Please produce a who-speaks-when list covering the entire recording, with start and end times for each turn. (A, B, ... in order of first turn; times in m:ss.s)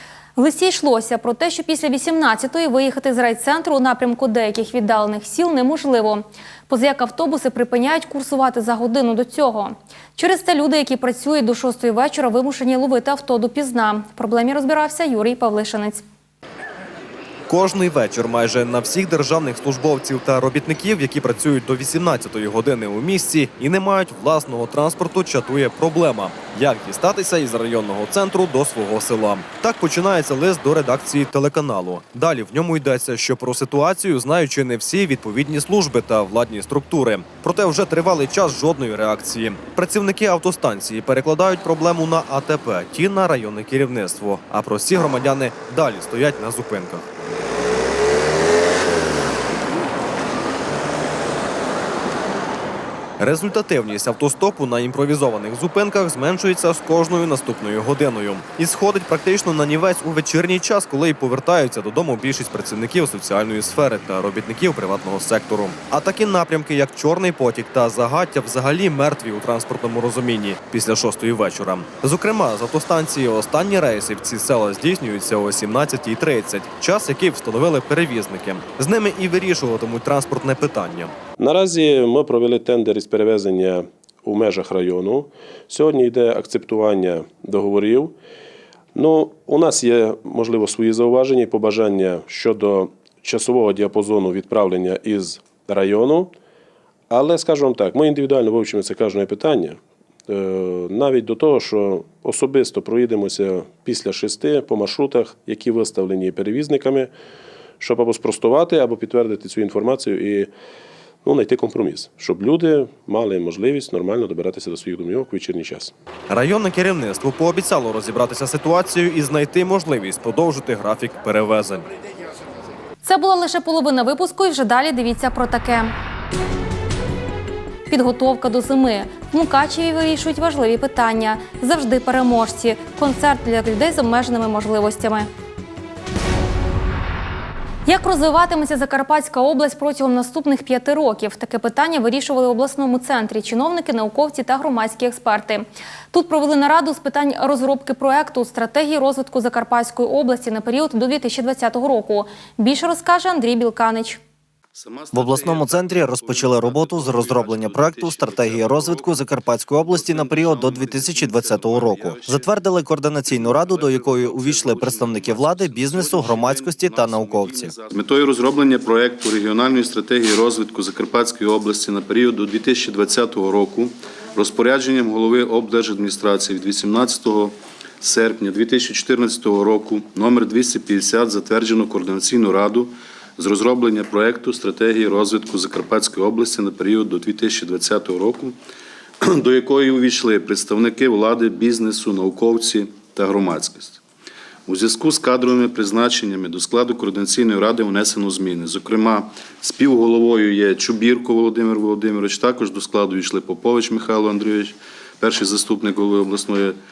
0:00.4-0:16.0 A
0:17.5-0:47.0 B
0:53.2-1:21.1 B
1:21.4-1:28.2 C
1:29.0-1:36.3 C
1:37.1-1:47.1 C
1:47.8-1:50.5 C
1:51.2-1:55.9 C
1:56.3-2:01.9 B
2:03.0-2:05.9 A
2:07.9-2:15.3 A
2:17.9-2:34.2 A
2:34.8-2:39.3 D
2:35.1-2:47.7 E
2:39.8-2:42.6 D
2:43.2-3:08.6 D
3:09.2-3:14.0 D
3:14.7-3:26.8 D